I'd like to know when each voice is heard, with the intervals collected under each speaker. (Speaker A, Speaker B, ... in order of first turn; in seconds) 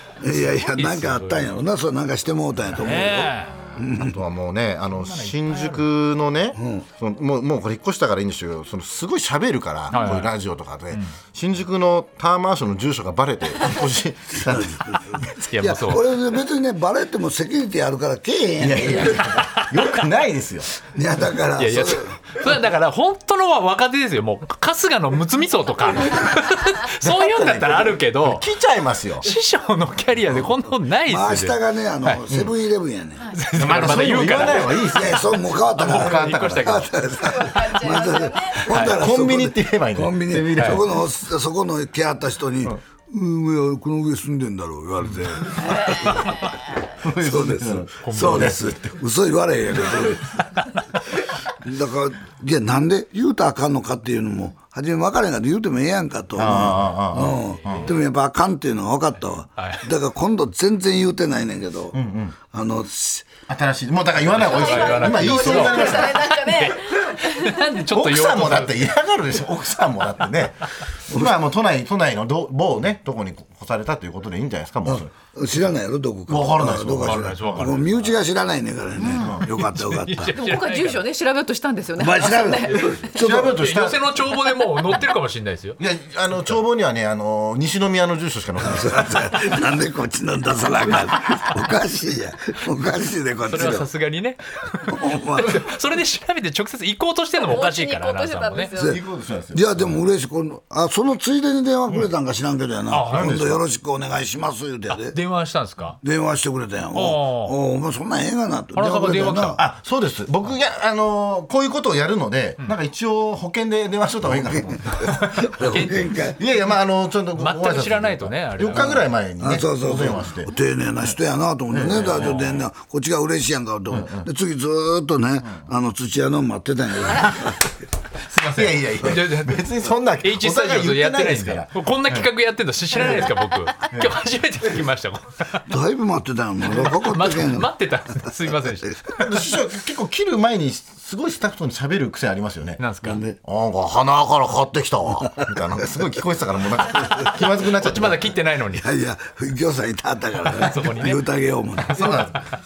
Speaker A: 0.2-4.2, 6.6-6.8, 14.5-19.4, 20.9-22.1, 31.1-46.6, 47.1-50.6, 51.5-62.0, 62.5-63.3, 71.1-71.3, 74.8-80.4, 82.0-83.5, 88.7-93.8, 94.9-95.7, 99.5-105.2, 106.0-109.6, 114.3-116.4, 119.4-127.7, 135.7-137.7, 143.0-143.3, 148.7-152.3
Speaker B: 0.3-1.5, 2.8-3.5, 5.0-5.8, 9.9-10.3, 15.5-16.1, 21.6-28.5, 29.2-32.2, 33.3-35.2, 35.8-36.9, 38.7-39.0, 40.5-40.8, 46.0-46.5, 48.0-48.6, 57.3-57.9, 59.5-59.9, 64.3-68.9, 77.0-78.0, 79.5-81.0, 82.7-85.8, 93.5-98.7, 102.9-103.5, 104.9-106.0, 106.9-107.5, 108.7-109.6, 115.0-116.1, 117.4-119.0, 122.0-122.6, 128.3-135.6, 136.6-139.2, 142.8-143.2, 147.7-148.8, 150.4-151.2, 151.8-152.3
Speaker C: 3.8-15.2, 18.6-20.7, 27.0-29.3, 33.5-36.9, 38.7-40.9, 47.0-48.8, 56.4-57.9, 61.9-62.3, 63.5-66.7, 67.9-75.1, 76.3-77.9, 79.0-79.5, 83.1-84.0, 85.8-89.3, 98.8-100.0, 103.1-103.6, 109.5-120.5, 121.7-122.6, 123.9-124.2, 128.5-132.3, 133.9-134.2, 139.2-142.8, 143.4-148.3, 151.9-152.4
Speaker D: 37.2-38.6, 64.4-67.6, 79.0-79.4, 80.3-83.1, 97.3-99.0